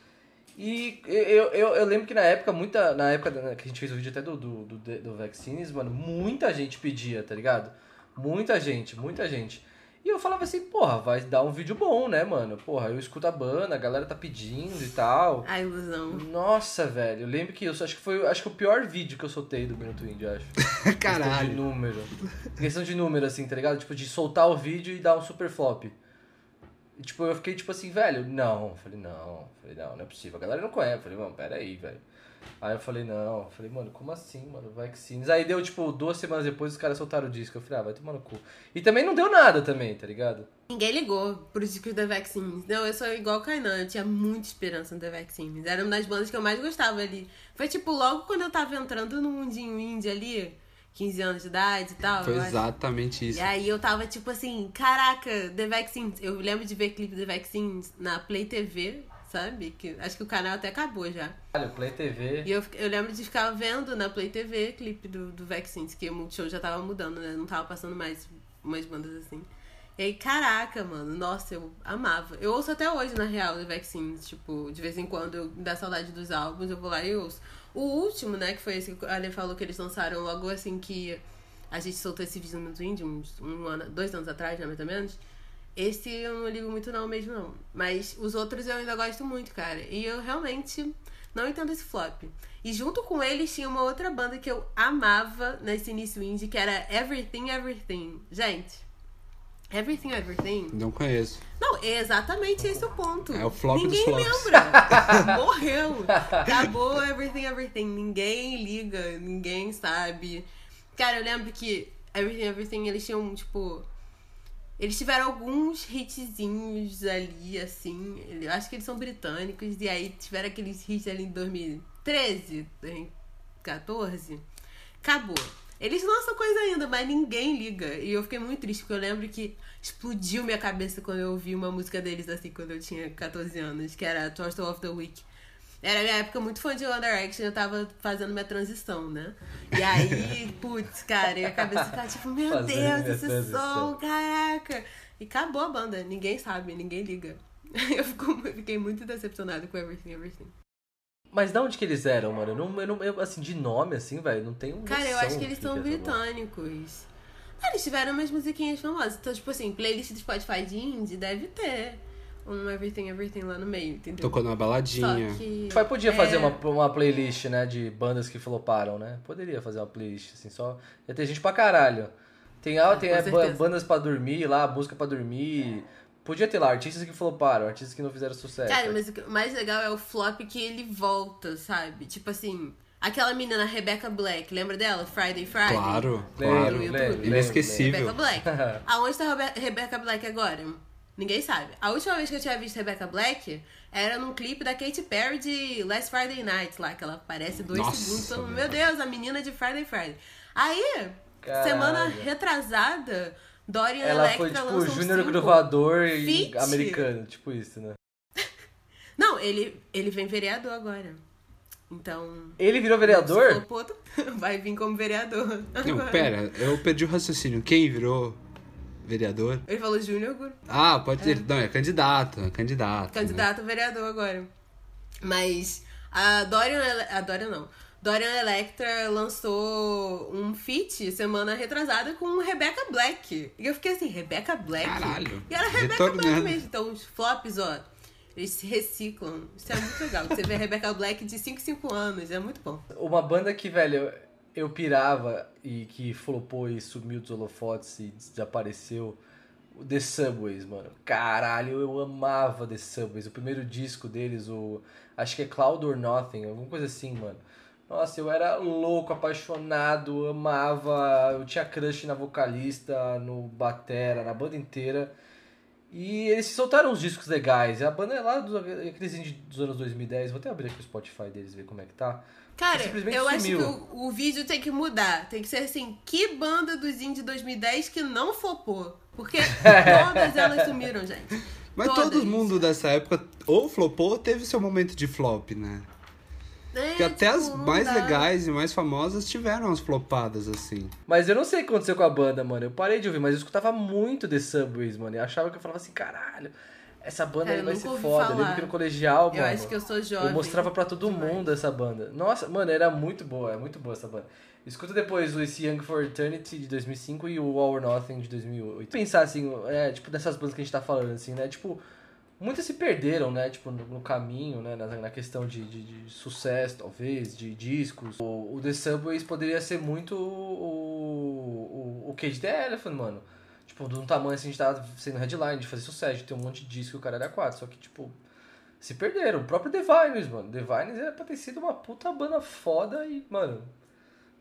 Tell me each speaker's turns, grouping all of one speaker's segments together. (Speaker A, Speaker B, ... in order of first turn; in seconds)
Speaker A: 0.6-15.5, 16.1-25.9, 27.0-32.0, 32.6-40.5, 61.5-62.5, 104.8-105.2, 141.4-141.8, 142.5-143.9, 151.3-156.2, 165.7-179.0, 186.4-188.8, 201.4-202.3, 204.0-208.0, 212.6-213.6, 242.9-249.2, 249.7-265.1, 265.9-273.8, 279.6-280.7, 291.1-311.8, 312.4-328.2, 328.8-333.7
Speaker B: 15.4-16.2, 40.7-52.7, 53.3-61.4, 62.5-85.2, 85.8-98.8, 99.7-100.8, 101.6-113.9, 114.8-124.4, 125.0-135.3, 135.8-150.5, 154.9-157.1, 157.6-166.6, 172.9-173.6, 178.7-207.1, 209.2-211.2, 211.9-216.4, 219.7-220.6, 221.2-221.5, 223.1-224.5, 225.2-242.8, 272.6-282.6, 286.7-288.3, 297.4-298.8, 299.3-301.4
Speaker C: 20.7-21.6, 52.2-53.5, 100.7-101.4, 103.3-105.2, 164.2-165.4, 185.7-188.2, 197.7-198.8, 215.8-218.4, 219.1-219.6, 220.7-223.5, 234.8-236.6, 281.8-285.9, 287.0-290.9